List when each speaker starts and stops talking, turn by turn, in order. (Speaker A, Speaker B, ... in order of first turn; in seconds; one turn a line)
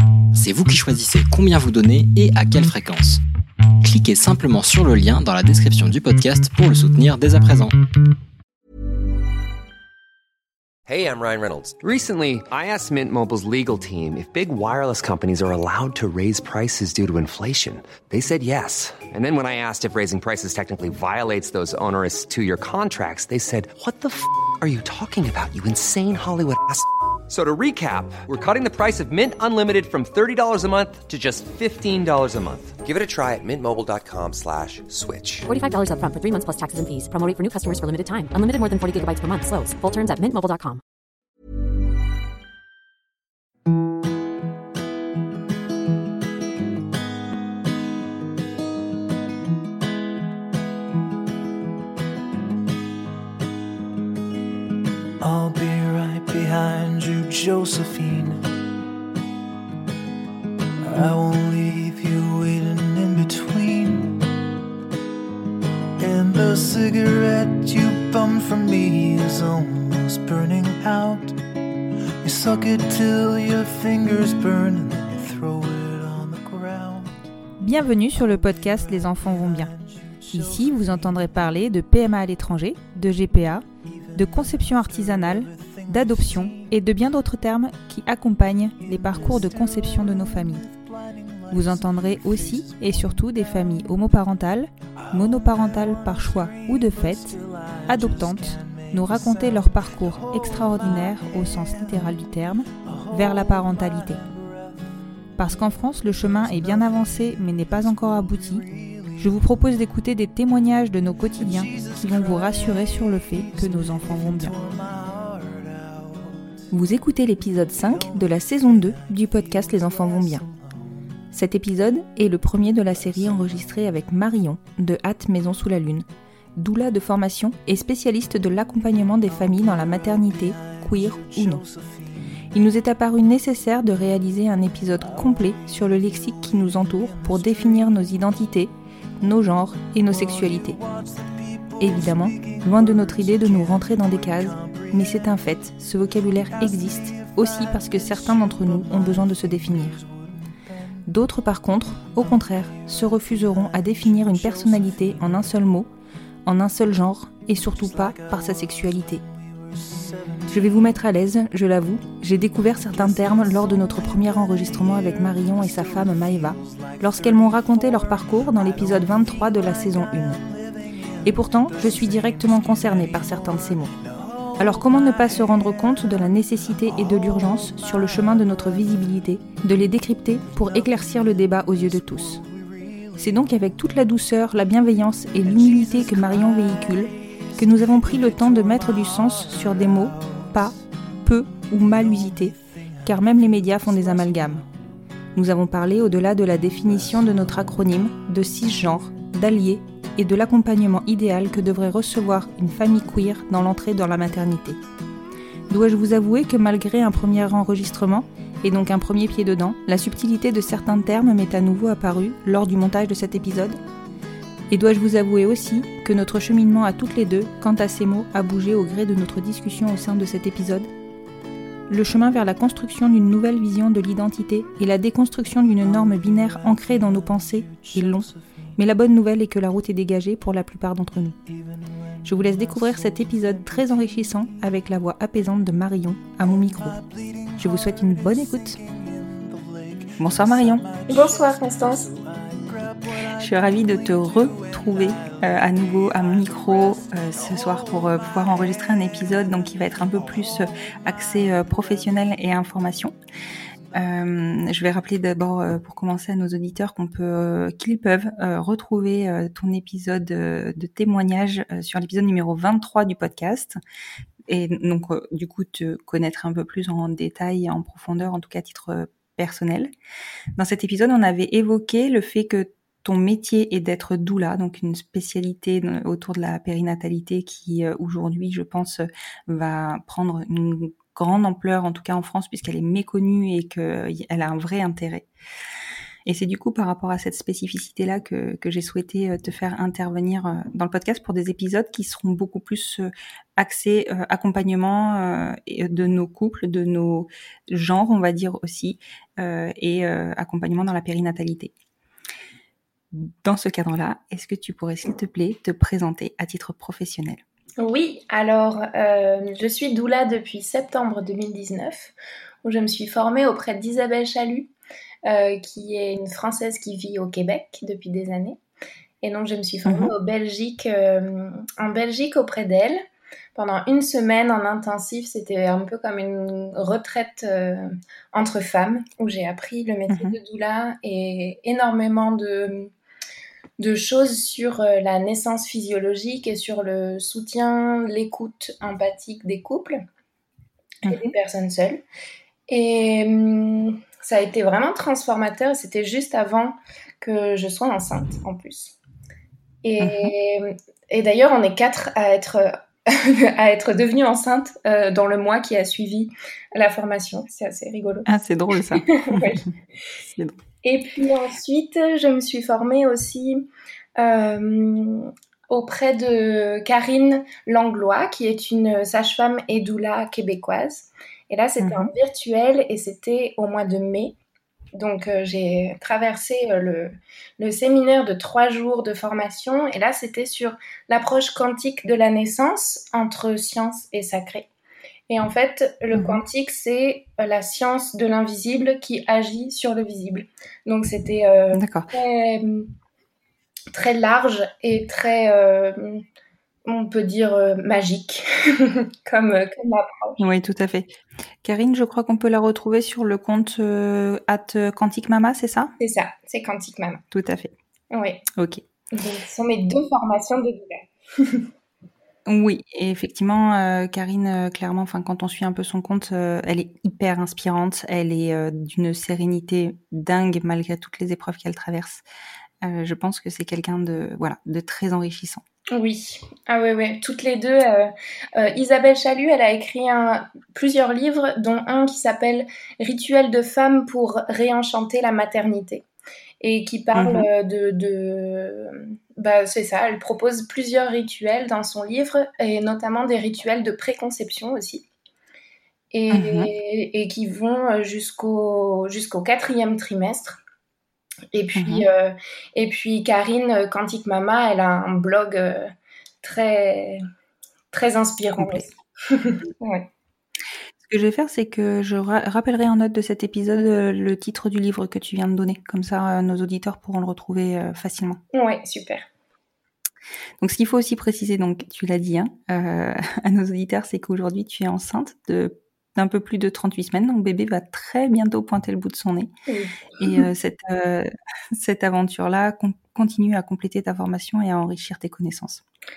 Speaker A: 0.3-3.2
Speaker A: 3.8-7.7
Speaker B: 10.9-35.5
Speaker C: 35.5-40.8
Speaker D: 55.2-58.5
Speaker D: 60.8-64.3
Speaker D: 66.0-71.4
Speaker D: 72.2-77.3
Speaker E: 77.6-79.7
Speaker D: 78.3-81.2
Speaker E: 80.3-90.7
Speaker D: 83.9-86.8
Speaker D: 88.8-93.8
Speaker E: 91.5-104.2
Speaker D: 95.0-102.2
Speaker D: 102.8-104.8
Speaker E: 105.4-114.5
Speaker D: 106.3-109.4
Speaker D: 111.3-116.6
Speaker E: 116.7-120.5
Speaker D: 117.7-121.0
Speaker E: 121.3-126.1
Speaker D: 123.0-123.7
Speaker E: 126.6-131.6
Speaker D: 129.3-132.2
Speaker E: 132.5-140.8
Speaker D: 135.0-138.2
Speaker D: 140.1-145.4
Speaker E: 141.8-150.0
Speaker D: 146.4-151.1
Speaker E: 151.1-155.9
Speaker D: 152.0-155.6
Speaker E: 156.5-159.2
Speaker D: 157.6-160.8
Speaker E: 160.5-170.4
Speaker D: 162.9-179.1
Speaker E: 171.2-173.9
Speaker E: 174.6-182.4
Speaker D: 180.4-183.4
Speaker E: 183.2-194.6
Speaker D: 185.3-190.8
Speaker D: 191.6-194.7
Speaker E: 195.3-204.8
Speaker D: 196.8-197.8
Speaker E: 205.7-213.8
Speaker E: 214.7-220.9
Speaker E: 221.9-231.4
Speaker D: 225.8-228.4
Speaker D: 232.2-234.4
Speaker E: 232.2-237.0
Speaker D: 236.4-252.2
Speaker E: 237.6-238.8
Speaker E: 240.2-240.8
Speaker F: 241.1-242.1
Speaker E: 243.4-253.2
Speaker E: 253.9-263.8
Speaker E: 264.5-269.9
Speaker E: 270.6-285.3
Speaker E: 286.3-301.7
Speaker E: 303.1-307.4
Speaker F: 307.8-312.1
Speaker F: 312.6-314.7
Speaker F: 315.2-318.6
Speaker F: 319.2-323.0
Speaker E: 319.9-320.1
Speaker F: 323.6-332.9
Speaker E: 330.1-330.4
Speaker F: 333.8-340.0
Speaker E: 341.1-341.3
Speaker F: 341.1-342.0
Speaker F: 342.7-349.0
Speaker F: 349.8-358.3
Speaker E: 350.0-350.3
Speaker E: 358.3-359.7
Speaker F: 358.9-359.7
Speaker E: 360.2-360.6
Speaker F: 360.8-374.4
Speaker E: 371.8-372.1
Speaker F: 374.9-384.7
Speaker F: 385.3-392.9
Speaker E: 386.1-386.4
Speaker E: 391.7-392.1
Speaker F: 393.9-396.2
Speaker F: 396.9-400.4
Speaker E: 400.4-405.9
Speaker F: 406.0-407.2
Speaker E: 407.3-407.7
Speaker F: 408.1-408.4
Speaker E: 408.6-408.8
Speaker F: 409.1-411.7
Speaker E: 412.5-422.2
Speaker E: 422.8-425.6
Speaker F: 425.9-436.0
Speaker F: 436.6-445.1
Speaker E: 437.1-437.5
Speaker F: 446.1-450.6
Speaker E: 446.3-446.7
Speaker F: 451.5-455.9
Speaker E: 451.8-452.1
Speaker F: 456.4-457.2
Speaker F: 457.9-460.1
Speaker E: 458.6-458.8
Speaker E: 461.0-468.4
Speaker F: 468.5-469.3
Speaker E: 470.6-479.5
Speaker F: 479.7-480.5
Speaker E: 480.2-485.8